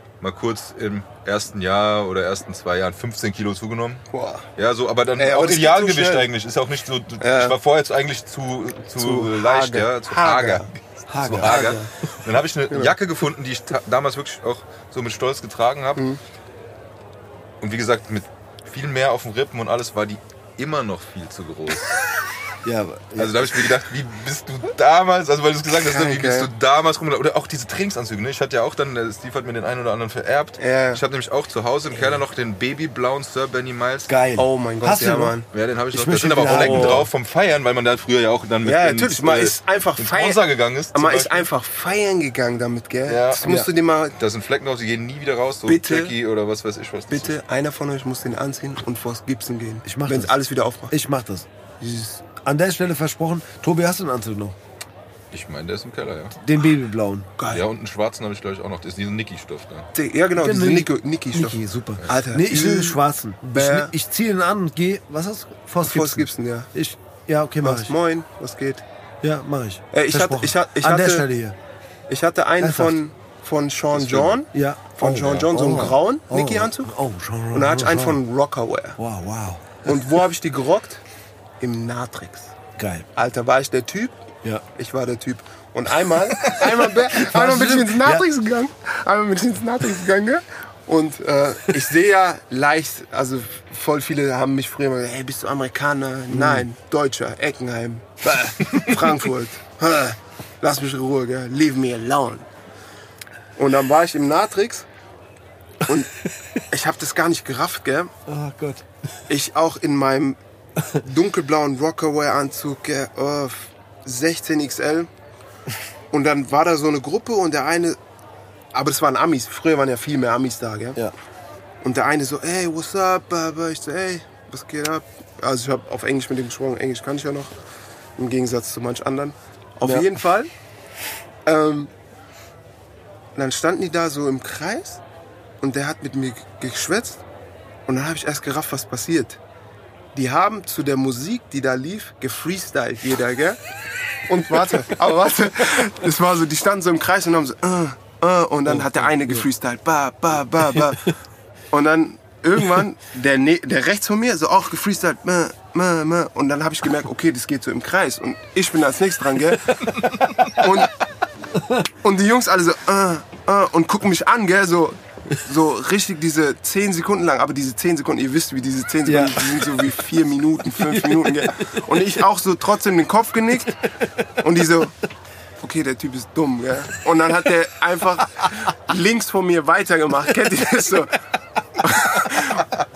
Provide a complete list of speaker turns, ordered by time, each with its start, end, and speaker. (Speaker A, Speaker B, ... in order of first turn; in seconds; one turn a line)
Speaker A: 0.2-16.1
Speaker B: 4.1-4.5
Speaker B: 5.2-6.3
Speaker B: 7.2-7.6
Speaker B: 9.0-10.7
Speaker C: 11.1-11.8
Speaker B: 11.2-11.9
Speaker A: 17.6-22.0
Speaker C: 22.6-23.7
Speaker A: 23.2-34.1
Speaker B: 25.8-26.5
Speaker B: 30.6-31.0
Speaker C: 34.1-35.4
Speaker B: 34.4-35.5
Speaker A: 35.5-41.5
Speaker C: 35.9-37.1
Speaker B: 36.5-37.0
Speaker B: 38.6-44.1
Speaker A: 43.1-43.5
Speaker A: 44.1-47.4
Speaker B: 45.7-46.1
Speaker B: 47.1-50.9
Speaker C: 49.9-50.4
Speaker C: 50.9-51.5
Speaker B: 51.8-52.2
Speaker C: 52.4-54.6
Speaker A: 55.3-56.4
Speaker C: 56.4-57.3
Speaker B: 57.4-57.6
Speaker A: 57.5-59.9
Speaker B: 59.9-63.9
Speaker C: 60.4-67.9
Speaker B: 65.8-66.7
Speaker B: 67.6-68.8
Speaker C: 69.2-71.6
Speaker B: 69.9-71.3
Speaker B: 72.1-76.9
Speaker C: 72.6-73.0
Speaker A: 73.9-74.4
Speaker C: 74.5-78.2
Speaker B: 77.5-79.0
Speaker C: 79.0-79.8
Speaker B: 79.8-81.0
Speaker B: 81.6-82.5
Speaker C: 82.8-83.1
Speaker B: 83.1-84.2
Speaker B: 84.8-102.5
Speaker C: 86.4-88.3
Speaker C: 96.3-96.7
Speaker C: 98.3-98.9
Speaker B: 103.6-104.9
Speaker B: 105.8-106.1
Speaker B: 106.7-108.1
Speaker C: 108.3-108.8
Speaker B: 109.3-110.4
Speaker B: 110.9-115.1
Speaker B: 116.1-118.0
Speaker B: 118.7-121.0
Speaker B: 121.8-127.5
Speaker B: 128.2-130.5
Speaker C: 129.8-130.2
Speaker B: 131.5-131.9
Speaker B: 133.4-135.0
Speaker B: 135.6-137.2
Speaker B: 137.9-139.4
Speaker B: 140.1-143.6
Speaker B: 144.3-151.1
Speaker C: 148.7-149.4
Speaker C: 150.7-151.0
Speaker B: 151.7-160.9
Speaker C: 160.4-160.8
Speaker C: 161.6-161.9
Speaker B: 162.0-173.8
Speaker C: 169.1-169.9
Speaker C: 170.7-172.1
Speaker B: 174.4-174.9
Speaker B: 175.6-181.2
Speaker B: 181.8-182.7